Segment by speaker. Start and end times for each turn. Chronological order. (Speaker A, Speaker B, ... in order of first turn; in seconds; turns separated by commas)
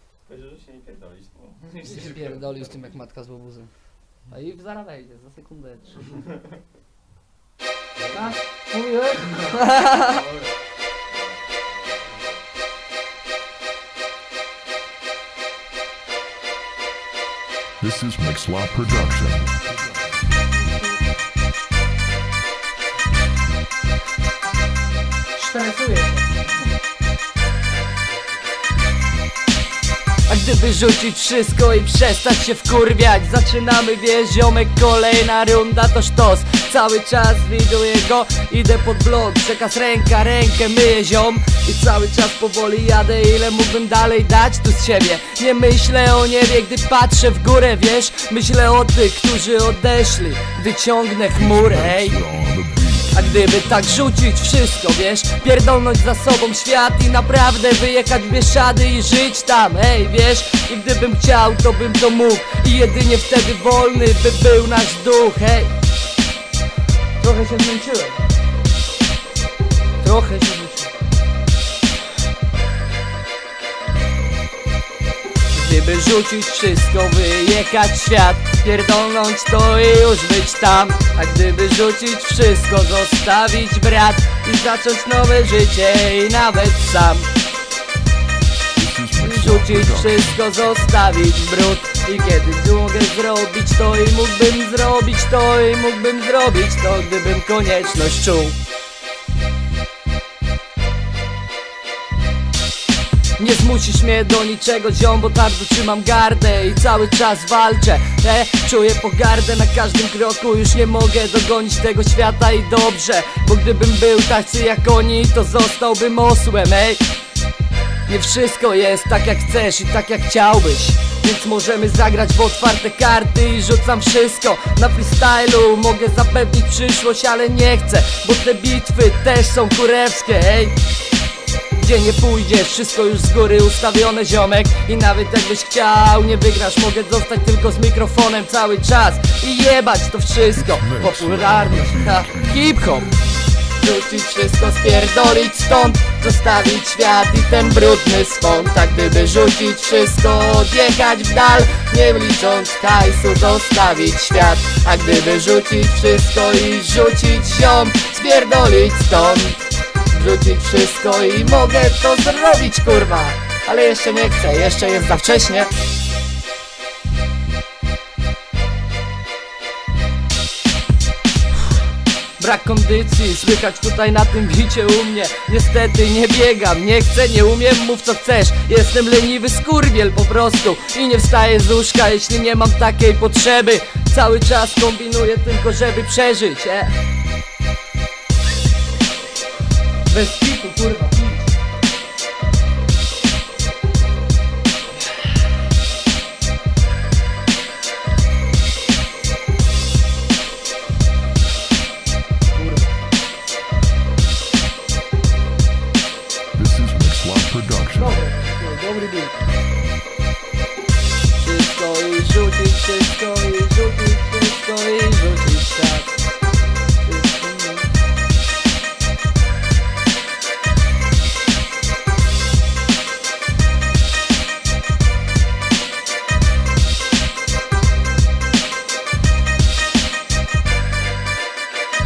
Speaker A: 0.2-3.0, Speaker B: 1.8-3.7, Speaker B: 4.3-6.1, Speaker A: 8.0-8.3, Speaker B: 8.1-10.1, Speaker A: 10.0-10.5, Speaker A: 11.1-12.4, Speaker C: 17.8-19.5, Speaker B: 25.4-26.3, Speaker B: 30.3-52.2, Speaker C: 51.3-54.0, Speaker B: 53.1-65.7, Speaker B: 67.2-68.2, Speaker B: 70.0-70.9, Speaker B: 75.5-87.3, Speaker C: 88.8-90.4, Speaker B: 89.2-98.6, Speaker B: 103.4-117.0, Speaker B: 118.1-130.8, Speaker B: 131.7-143.2, Speaker C: 140.5-143.2, Speaker B: 143.7-165.7, Speaker B: 172.4-186.9, Speaker B: 190.1-191.5, Speaker B: 202.5-202.9, Speaker C: 206.5-208.2, Speaker B: 207.9-209.3, Speaker B: 211.4-216.1, Speaker B: 217.0-217.9